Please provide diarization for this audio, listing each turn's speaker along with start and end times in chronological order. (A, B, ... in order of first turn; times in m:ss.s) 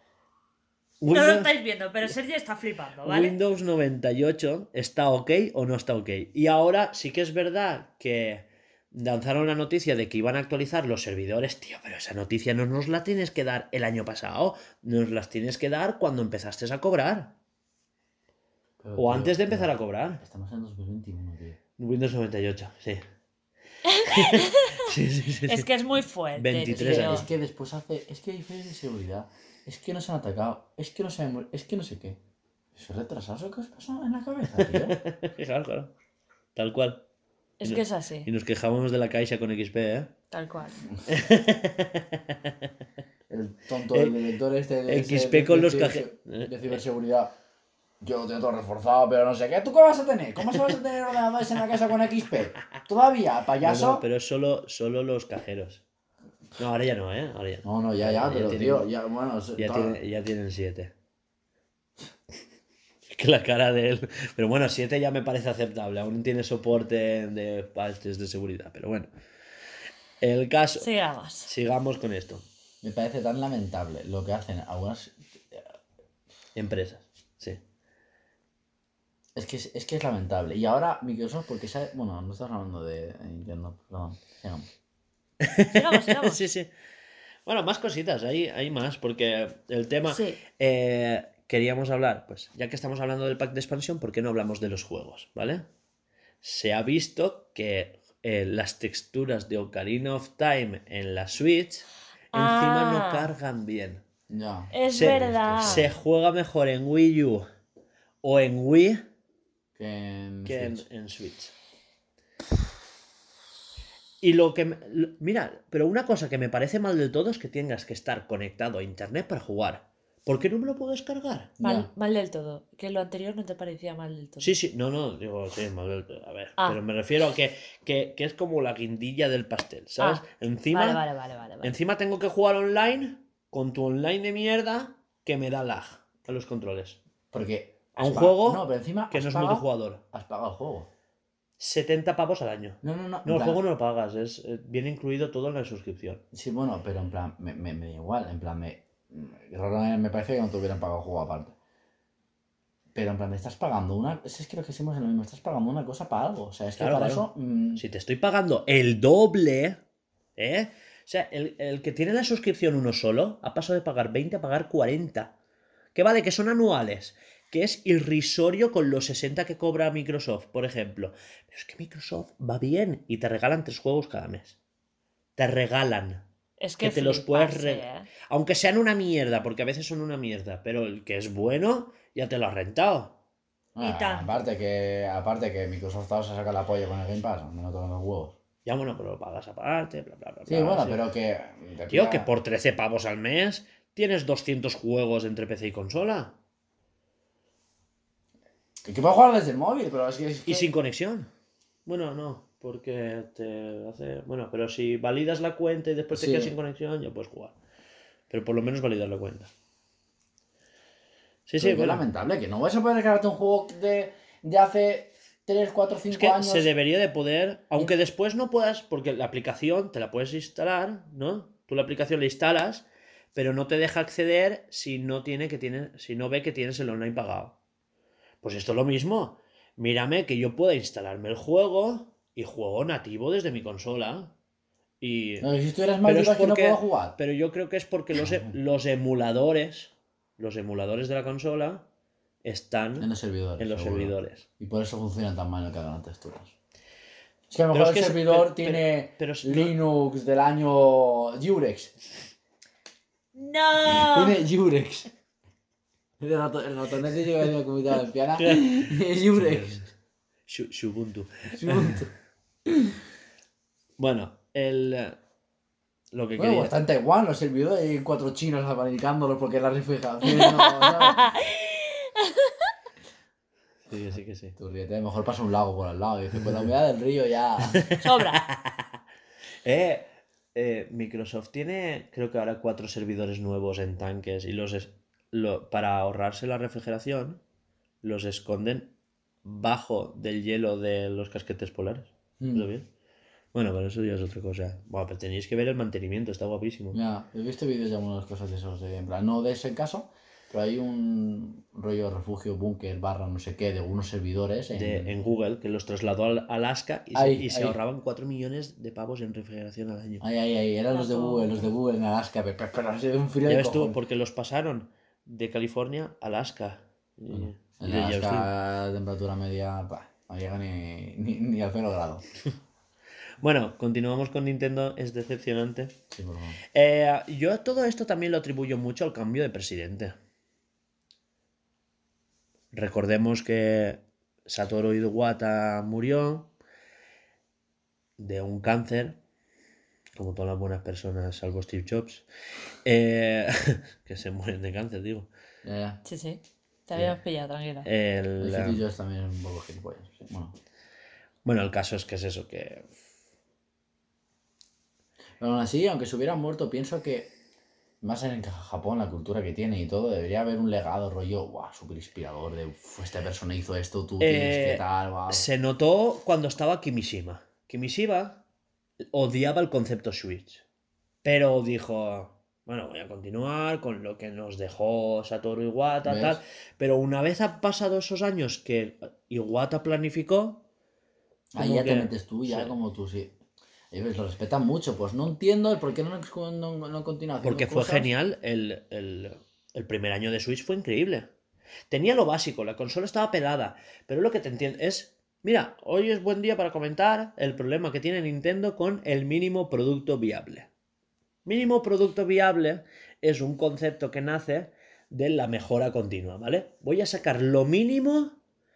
0:01.0-0:01.5 A
0:01.1-0:03.4 B
0:03.0-0:17.3 A
0:18.8-0:21.6 C
0:19.0-0:20.2 A
0:21.8-0:23.0 A
0:23.9-0:24.9 B
0:24.0-0:25.7 A
0:25.5-0:27.2 B
0:26.4-0:27.3 A
0:26.7-0:32.2 C
0:32.7-0:35.0 C
0:34.6-0:35.9 A
0:36.6-0:37.0 A
0:37.6-0:38.3 B
0:37.6-0:40.1 A
0:40.3-0:40.8 B
0:41.1-0:42.5 A
0:43.3-0:47.3 C
0:43.9-0:44.2 A
0:44.9-0:46.8 A
0:48.0-0:54.0 C
0:53.6-0:55.8 A
0:56.6-0:58.9 A
0:57.6-1:00.0 C
0:59.6-1:00.9 A
1:03.1-1:09.1 A
1:10.2-1:10.9 A
1:10.8-1:11.5 B
1:11.4-1:12.4 A
1:12.8-1:15.6 C
1:16.6-1:17.6 A
1:19.4-1:24.7 C
1:25.4-1:26.7 A
1:25.7-1:26.4 B
1:27.4-1:35.6 A
1:30.1-1:30.4 B
1:36.4-1:44.0 A
1:42.3-1:43.3 B
1:44.3-1:45.9 C
1:44.7-1:45.8 B
1:44.9-1:47.4 A
1:48.2-1:49.0 A
1:49.8-1:50.8 C
1:50.4-1:51.5 A
1:54.2-2:01.5 A
2:01.6-2:01.9 C
2:01.6-2:04.6 B
2:04.4-2:11.0 A
2:10.0-2:11.7 B
2:11.6-2:17.0 A
2:17.3-2:20.9 C
2:18.0-2:20.0 A
2:21.6-2:26.2 A
2:22.8-2:23.6 C
2:26.3-2:31.6 C
2:32.9-2:37.8 C
2:36.8-2:39.8 A
2:40.4-2:45.3 A
2:46.0-2:54.6 A
2:55.4-2:56.2 A
2:56.6-2:58.1 B
2:56.8-3:03.1 A
3:03.7-3:08.4 C
3:03.8-3:04.3 B
3:08.6-3:11.0 A
3:10.5-3:12.3 C
3:11.9-3:16.4 A
3:18.8-3:20.7 C
3:20.5-3:21.3 A
3:21.9-3:27.6 A
3:26.1-3:26.6 C
3:28.3-3:29.5 A
3:31.5-3:32.0 A
3:31.6-3:36.7 C
3:36.1-3:47.6 A
3:48.4-3:54.3 A
3:55.0-3:55.5 A
3:55.4-3:57.2 C
3:56.0-4:01.8 A
3:58.2-3:58.5 C
4:02.4-4:04.4 A
4:03.0-4:06.5 C
4:07.5-4:12.0 C
4:07.7-4:09.7 A
4:13.3-4:14.4 B
4:13.9-4:15.1 C
4:16.2-4:19.8 C
4:18.4-4:19.9 A
4:20.5-4:22.1 A
4:21.5-4:22.1 C
4:22.7-4:23.0 C
4:24.0-4:25.2 A
4:26.1-4:26.7 A
4:26.4-4:31.2 C
4:30.3-4:32.7 B
4:33.9-4:34.6 A
4:34.6-4:37.9 C
4:37.7-4:39.0 A
4:38.0-4:38.4 B
4:39.6-4:47.4 A
4:48.0-4:48.9 A
4:49.4-4:52.9 A
4:52.4-4:52.7 C
4:53.5-4:57.0 A
4:56.9-5:05.1 C
5:04.7-5:10.2 A
5:07.1-5:07.8 C
5:10.2-5:14.0 C
5:10.9-5:11.7 B
5:13.4-5:18.5 A
5:17.3-5:22.2 C
5:23.4-5:26.0 A
5:26.1-5:26.6 C
5:26.7-5:30.1 A
5:32.7-5:36.5 A
5:38.2-5:39.2 A
5:40.2-5:42.2 A
5:42.8-5:45.3 A
5:45.6-5:46.0 C
5:46.0-5:47.9 B
5:47.8-5:48.8 A
5:48.4-5:50.6 C
5:51.4-5:52.9 A
5:55.4-5:57.3 C
5:58.0-6:05.5 C
6:04.2-6:08.4 A
6:09.1-6:10.6 A
6:11.2-6:20.6 A
6:16.0-6:16.4 C
6:21.5-6:23.4 C
6:21.6-6:22.7 A
6:23.9-6:28.1 C
6:27.4-6:31.3 A
6:31.9-6:40.7 A
6:41.4-6:48.4 A